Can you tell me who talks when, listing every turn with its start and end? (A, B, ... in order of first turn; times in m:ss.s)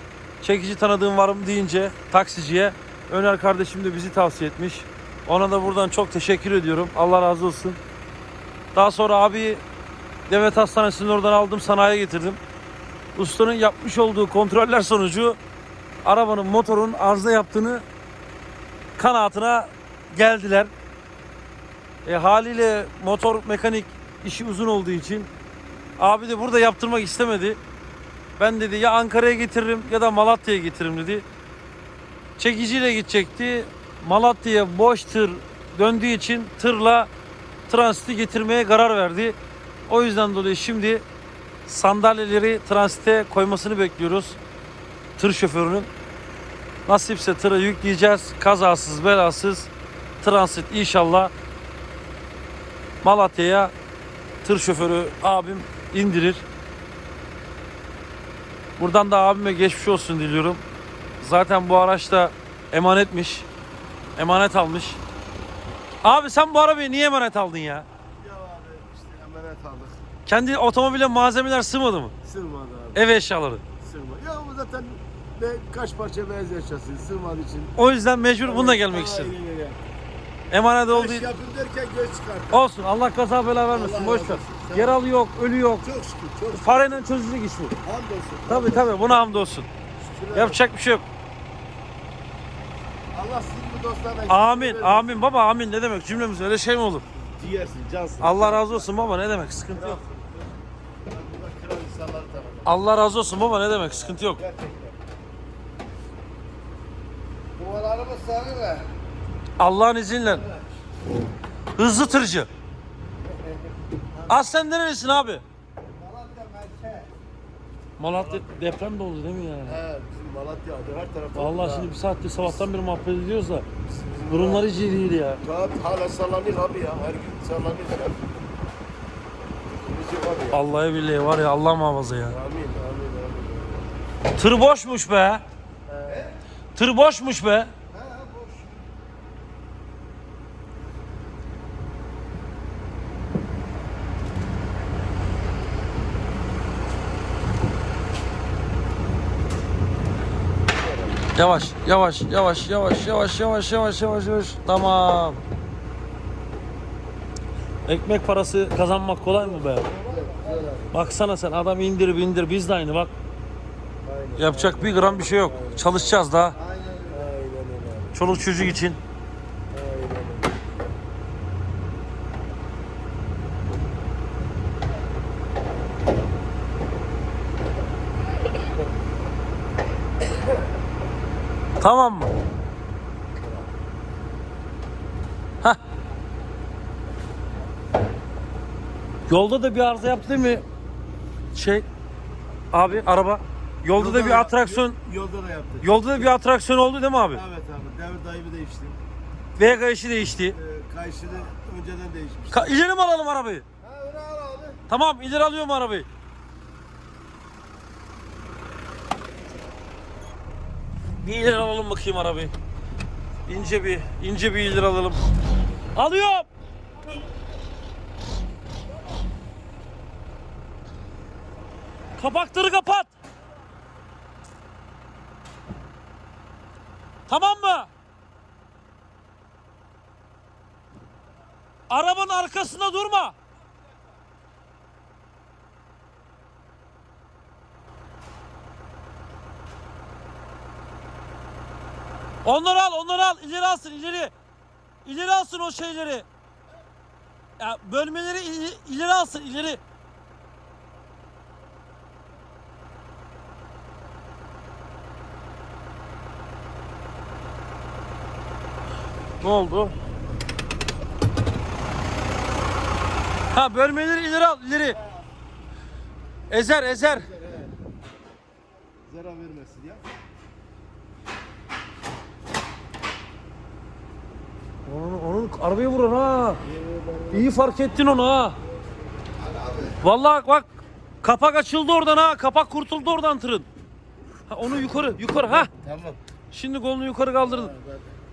0:00.4-0:07.8 A
0:08.7-0:09.6 A
0:10.3-0:12.4 A
0:13.2-0:15.4 A
0:16.0-0:17.8 A
0:19.0-0:20.7 A
0:22.0-0:25.3 A
0:26.0-0:27.6 A
0:28.4-0:31.2 A
0:32.4-0:37.1 A
0:37.7-0:41.0 A
0:41.6-0:44.4 A
0:45.2-0:45.9 A
0:46.9-0:49.7 A
0:50.2-0:51.3 A
0:53.0-0:53.7 A
0:54.4-0:56.4 A
0:58.8-1:00.6 A
1:01.2-1:03.5 A
1:04.2-1:05.0 A
1:06.0-1:07.9 A
1:08.2-1:10.0 B
1:10.2-1:12.1 A
1:12.2-1:13.0 B
1:12.9-1:13.6 A
1:13.8-1:17.7 B
1:17.8-1:19.3 A
1:18.4-1:19.8 B
1:20.5-1:21.3 A
1:20.9-1:22.6 B
1:22.5-1:25.8 A
1:23.7-1:25.0 B
1:25.8-1:27.0 B
1:26.5-1:27.8 A
1:27.8-1:30.6 B
1:28.5-1:29.7 A
1:30.3-1:31.0 A
1:33.1-1:35.2 B
1:34.3-1:37.0 A
1:37.3-1:38.9 B
1:38.2-1:40.0 A
1:39.7-1:40.5 B
1:41.1-1:42.7 B
1:42.6-1:44.4 A
1:43.8-1:45.0 B
1:47.6-1:48.9 C
1:49.6-1:50.4 A
1:50.2-1:50.7 C
1:51.8-1:52.5 A
1:54.3-1:55.4 A
1:55.8-1:57.1 C
1:58.0-1:59.8 A
1:58.1-1:58.4 B
1:59.7-2:01.9 B
2:01.3-2:03.6 A
2:03.9-2:04.6 B
2:04.3-2:05.4 A
2:05.4-2:08.3 B
2:09.8-2:10.6 B
2:10.5-2:12.4 A
2:12.3-2:13.9 B
2:14.4-2:15.4 A
2:15.9-2:16.3 B
2:16.0-2:16.3 C
2:16.8-2:17.7 A
2:17.9-2:18.8 C
2:30.7-2:31.2 B
2:31.3-2:35.4 A
2:37.8-2:39.9 A
2:39.5-2:40.7 C
2:40.0-2:41.2 B
2:40.9-2:43.1 A
2:44.0-2:46.2 B
2:44.4-2:46.6 A
2:46.5-2:47.3 C
2:47.1-2:48.2 B
2:48.1-2:49.0 A
2:49.7-2:50.7 B
3:01.8-3:02.3 A
3:09.3-3:10.6 A
3:11.5-3:11.8 A
3:12.7-3:15.0 A
3:13.9-3:16.3 B
3:15.8-3:17.4 A
3:17.3-3:19.0 B
3:19.6-3:20.6 A
3:20.5-3:22.8 B
3:22.5-3:23.6 A
3:23.8-3:24.8 C
3:24.9-3:26.1 A
3:31.2-3:32.5 A
3:33.4-3:35.2 A
3:35.9-3:36.5 A
3:42.2-3:43.1 A
3:47.3-3:47.9 A
3:51.9-3:53.3 A
4:02.4-4:04.3 A
4:05.0-4:06.2 A
4:07.6-4:09.8 A
4:19.4-4:19.9 A
4:23.5-4:25.0 A
4:26.5-4:27.3 A
4:27.2-4:27.7 B
4:29.0-4:30.0 B
4:34.8-4:36.6 A
4:36.6-4:37.7 B
4:37.3-4:38.6 A
4:39.4-4:40.0 C
4:40.0-4:40.7 A
4:41.2-4:43.7 A
4:44.5-4:45.7 A
4:45.4-4:46.2 B
4:46.5-4:47.7 A
4:47.4-4:48.1 B